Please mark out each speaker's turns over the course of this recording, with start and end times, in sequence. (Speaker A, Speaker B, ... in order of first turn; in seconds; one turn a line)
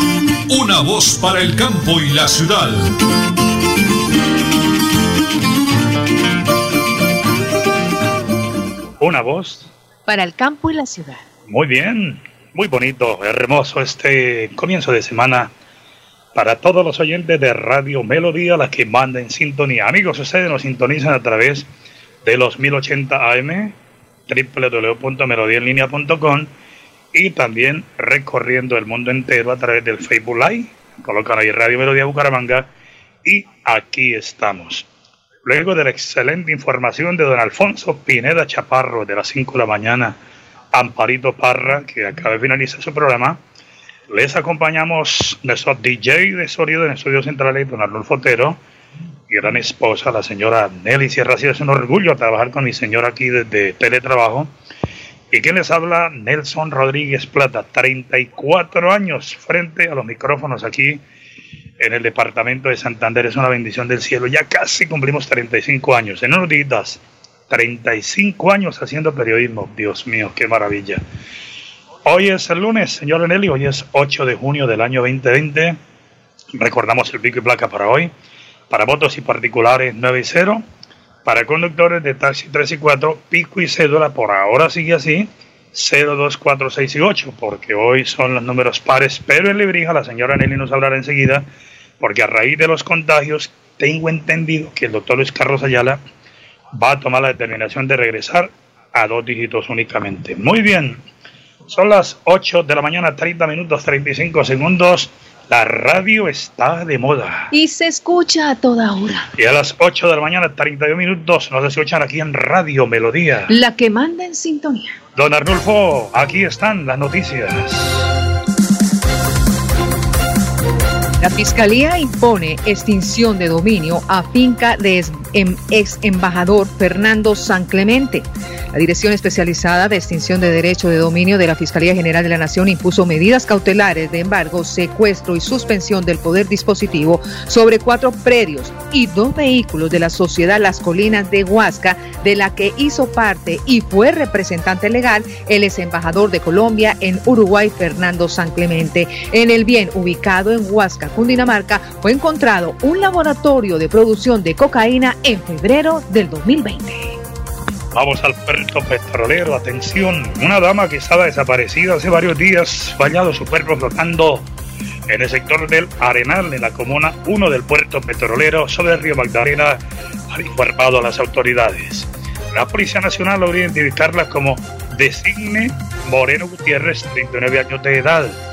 Speaker A: 0.5-2.9
Speaker B: 9.0-9.7
Speaker C: 10.1-11.2
Speaker B: 11.5-15.5
Speaker B: 16.4-21.7
Speaker B: 22.2-23.8
Speaker B: 24.3-26.5
Speaker B: 27.1-32.7
Speaker B: 33.2-34.9
Speaker B: 35.5-40.2
Speaker B: 40.7-43.4
Speaker B: 44.1-48.6
Speaker B: 49.3-54.5
Speaker B: 55.3-61.0
Speaker B: 61.8-71.0
Speaker B: 72.0-75.8
Speaker B: 76.6-78.1
Speaker B: 78.7-80.6
Speaker B: 81.2-91.5
Speaker B: 92.0-96.0
Speaker B: 96.8-101.0
Speaker B: 101.7-107.5
Speaker C: 107.5-109.3
Speaker B: 109.4-113.5
Speaker C: 113.5-115.0
Speaker B: 115.2-118.0
Speaker C: 121.2-157.2
Speaker B: 157.9-164.5
Speaker B: 165.1-169.8
Speaker B: 170.3-178.4